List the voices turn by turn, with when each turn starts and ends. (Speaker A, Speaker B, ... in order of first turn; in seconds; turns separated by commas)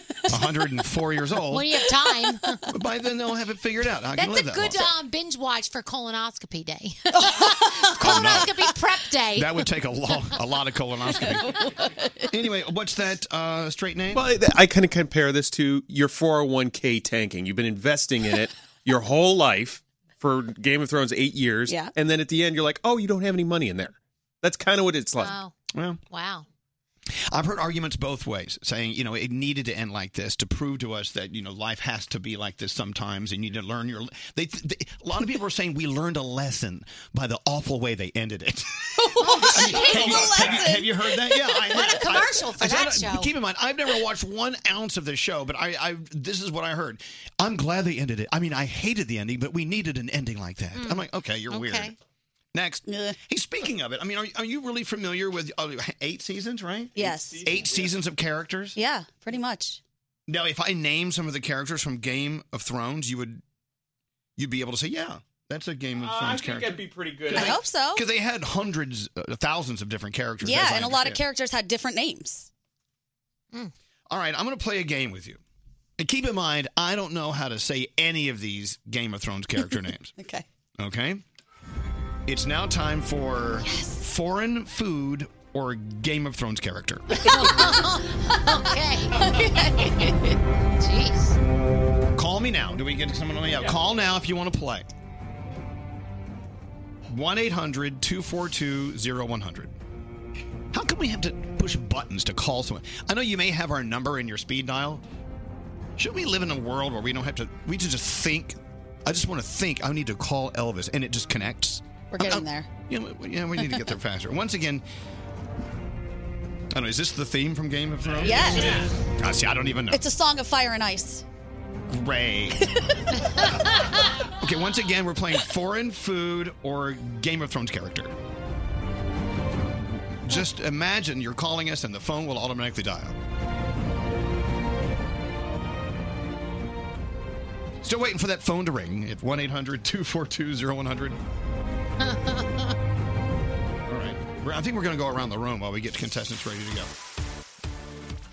Speaker A: 0.3-1.8, Speaker B: 1.5-2.6, Speaker A: 2.7-4.9, Speaker B: 4.1-9.7, Speaker C: 7.3-8.4, Speaker A: 8.0-8.6, Speaker A: 9.3-11.7, Speaker C: 11.2-12.2, Speaker A: 12.3-14.3, Speaker D: 14.1-25.4, Speaker C: 21.7-21.9, Speaker B: 25.2-25.5, Speaker A: 25.7-26.0, Speaker B: 26.1-26.4, Speaker A: 27.3-51.9, Speaker C: 39.0-40.9, Speaker B: 39.2-40.6, Speaker B: 41.3-43.3, Speaker B: 50.7-51.9, Speaker A: 52.5-58.8, Speaker C: 52.9-53.2, Speaker C: 56.9-57.5, Speaker D: 57.0-58.0, Speaker C: 58.7-59.8, Speaker A: 60.3-63.4, Speaker A: 64.4-71.2, Speaker D: 66.0-67.6, Speaker C: 67.3-68.0, Speaker C: 70.4-72.5, Speaker A: 74.1-75.4, Speaker A: 76.0-80.1, Speaker C: 80.2-80.4, Speaker A: 80.8-81.2, Speaker A: 82.3-87.3, Speaker C: 83.6-84.0, Speaker B: 87.2-91.4, Speaker A: 92.1-94.8, Speaker A: 97.1-99.7, Speaker A: 100.7-105.0, Speaker A: 106.0-114.8, Speaker C: 112.1-112.7, Speaker A: 116.7-120.0, Speaker C: 118.2-118.8, Speaker C: 119.9-121.2, Speaker A: 121.9-122.6, Speaker A: 124.4-128.1, Speaker A: 130.2-133.2, Speaker A: 137.8-141.2, Speaker B: 142.0-142.7, Speaker A: 143.9-146.9